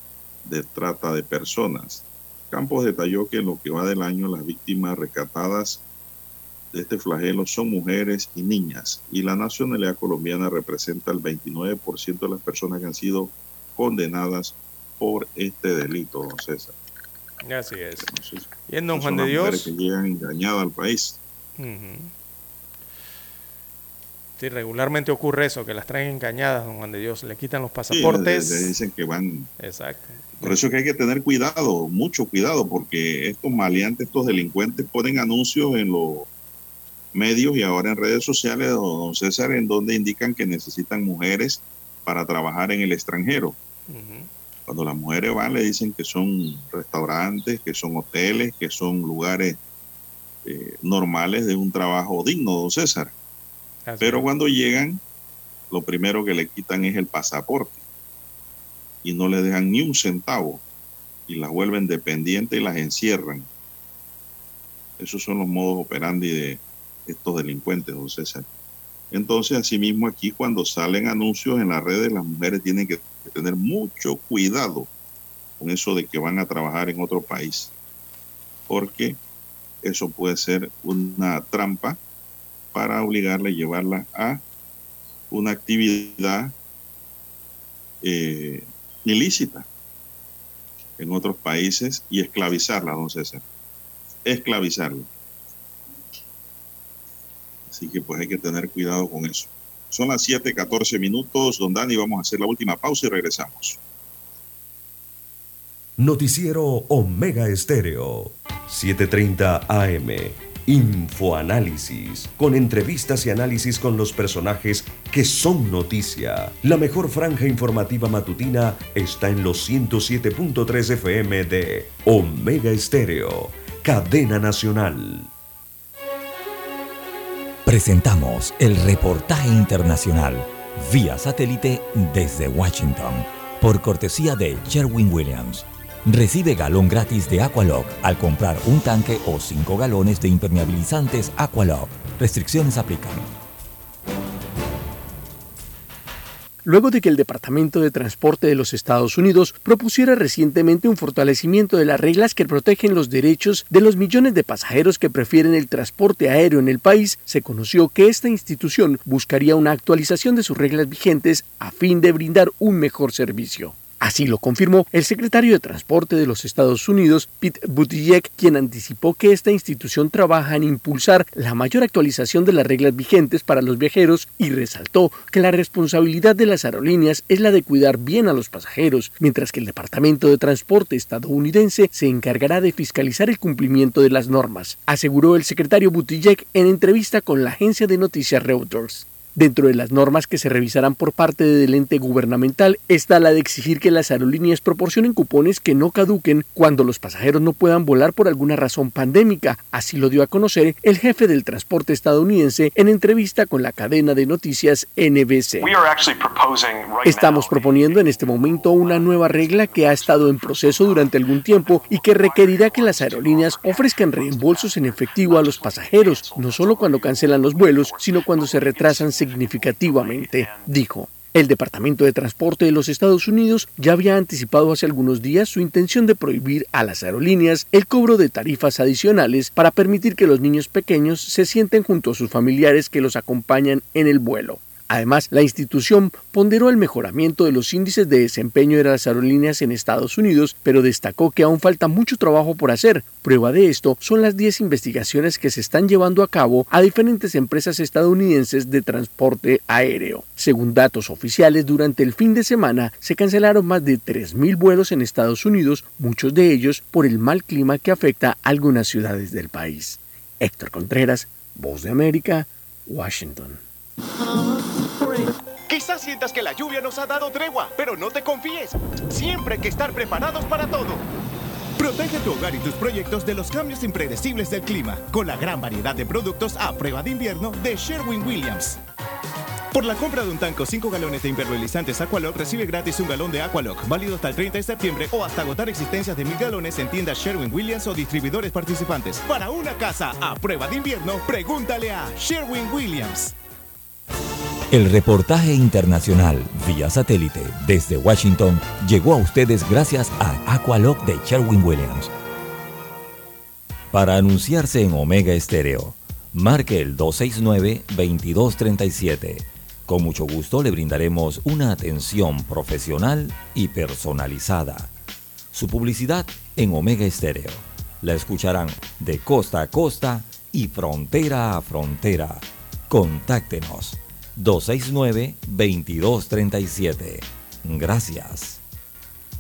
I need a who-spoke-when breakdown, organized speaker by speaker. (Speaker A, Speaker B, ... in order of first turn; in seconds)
Speaker A: 0.4-5.8, 6.7-16.8, 18.0-21.2, 27.9-29.5, 30.4-36.3, 37.1-43.6, 44.7-49.6, 50.5-53.1, 54.0-55.0, 55.7-57.8, 59.0-60.6, 61.3-63.5, 65.0-68.5, 69.1-74.9, 75.6-77.7, 78.7-79.2, 79.8-82.0, 82.7-84.4, 85.3-86.5, 88.0-89.7, 91.0-93.4, 94.2-95.1, 97.7-103.8
Speaker B: 17.4-18.1, 18.7-19.7, 21.6-22.1, 24.4-28.7, 29.6-30.6, 43.9-44.3, 53.9-54.2
Speaker C: 106.0-125.3
Speaker D: 127.7-143.3, 294.7-302.1, 303.9-314.9, 315.5-328.6
Speaker E: 146.7-205.8, 207.0-263.6
Speaker F: 265.1-271.0, 271.8-278.8, 279.7-293.3